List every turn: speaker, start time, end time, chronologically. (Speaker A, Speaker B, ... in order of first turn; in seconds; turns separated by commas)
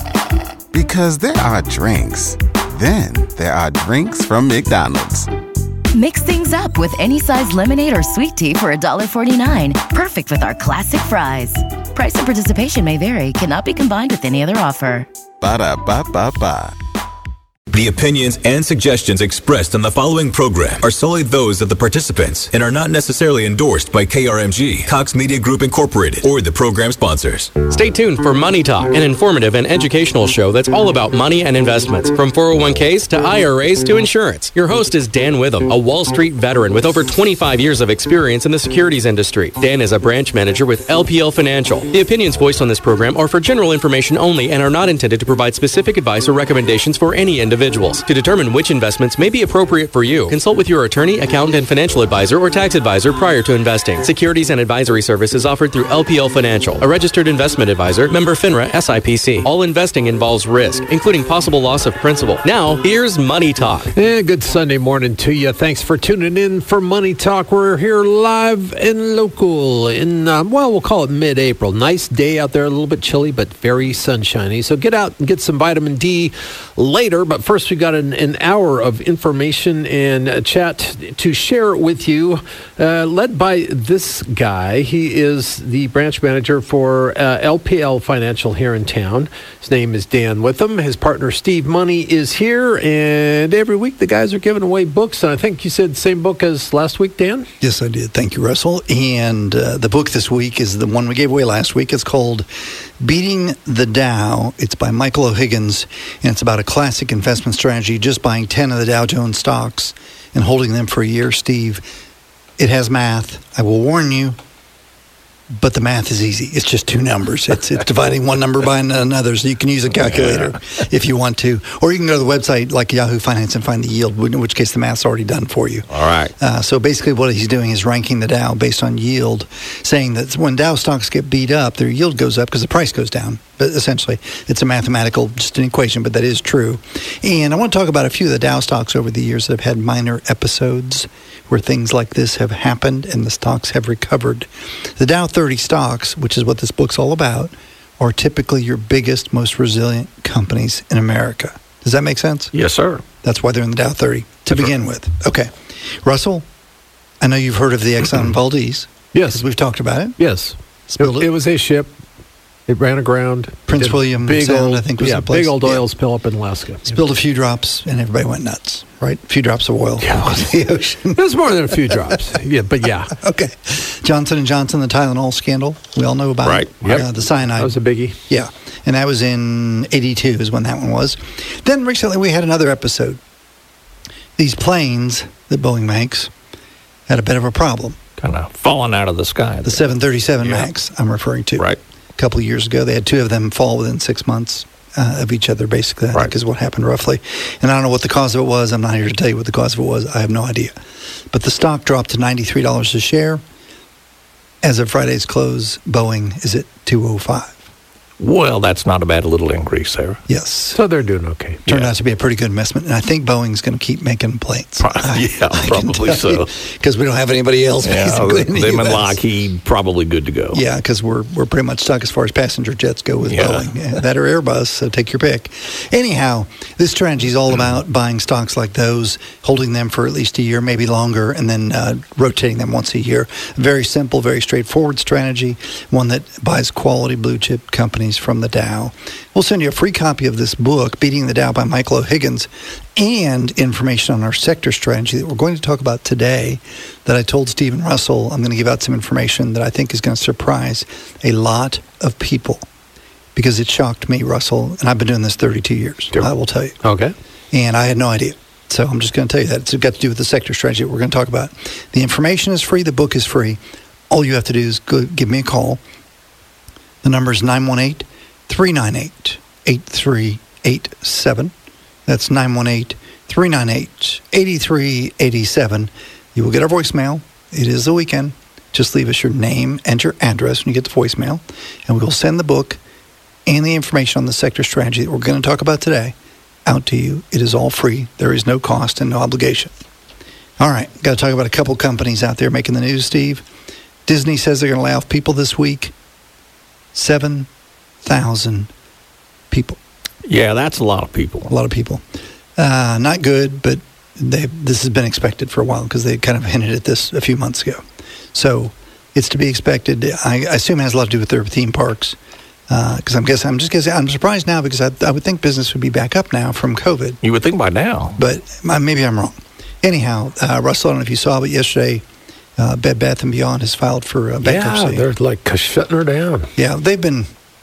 Speaker A: 0.7-5.3, Speaker B: 5.9-15.1, Speaker A: 15.4-16.8, Speaker C: 17.7-27.6, Speaker D: 27.7-63.9, Speaker E: 64.0-97.5, Speaker F: 97.6-111.8, Speaker F: 112.6-114.4, Speaker F: 115.5-125.9, Speaker G: 120.0-120.6, Speaker G: 125.9-126.3, Speaker F: 126.4-152.5, Speaker G: 152.5-153.0, Speaker F: 153.2-156.5, Speaker F: 157.2-160.2, Speaker E: 159.1-159.4, Speaker E: 160.2-162.0, Speaker F: 160.9-161.3, Speaker E: 162.7-166.9, Speaker F: 163.7-165.8, Speaker F: 166.9-172.2, Speaker E: 170.0-173.1, Speaker F: 173.1-183.2, Speaker G: 176.4-177.0, Speaker E: 176.8-178.2, Speaker F: 184.4-186.3, Speaker F: 187.1-188.0, Speaker G: 188.2-189.9, Speaker F: 189.7-200.8, Speaker F: 201.3-203.4, Speaker F: 204.6-207.7, Speaker G: 208.2-210.2, Speaker F: 210.3-210.8, Speaker E: 210.7-211.6, Speaker G: 211.7-211.9, Speaker F: 211.7-219.2, Speaker G: 214.8-216.5, Speaker G: 217.8-220.6, Speaker F: 220.5-252.7, Speaker G: 223.2-223.7, Speaker F: 253.3-256.8, Speaker E: 256.8-257.1, Speaker F: 257.5-265.8, Speaker F: 267.0-271.5, Speaker F: 272.1-282.8, Speaker F: 283.5-289.7, Speaker F: 290.6-293.4, Speaker F: 294.1-295.9, Speaker F: 296.9-297.5, Speaker F: 298.0-298.7, Speaker F: 299.5-299.8, Speaker G: 300.3-301.5, Speaker F: 301.5-302.0, Speaker F: 302.6-307.8, Speaker F: 308.3-312.2, Speaker F: 312.7-317.2, Speaker G: 317.2-318.2, Speaker F: 318.2-322.1, Speaker F: 322.6-325.1, Speaker E: 324.4-326.5, Speaker F: 326.6-327.3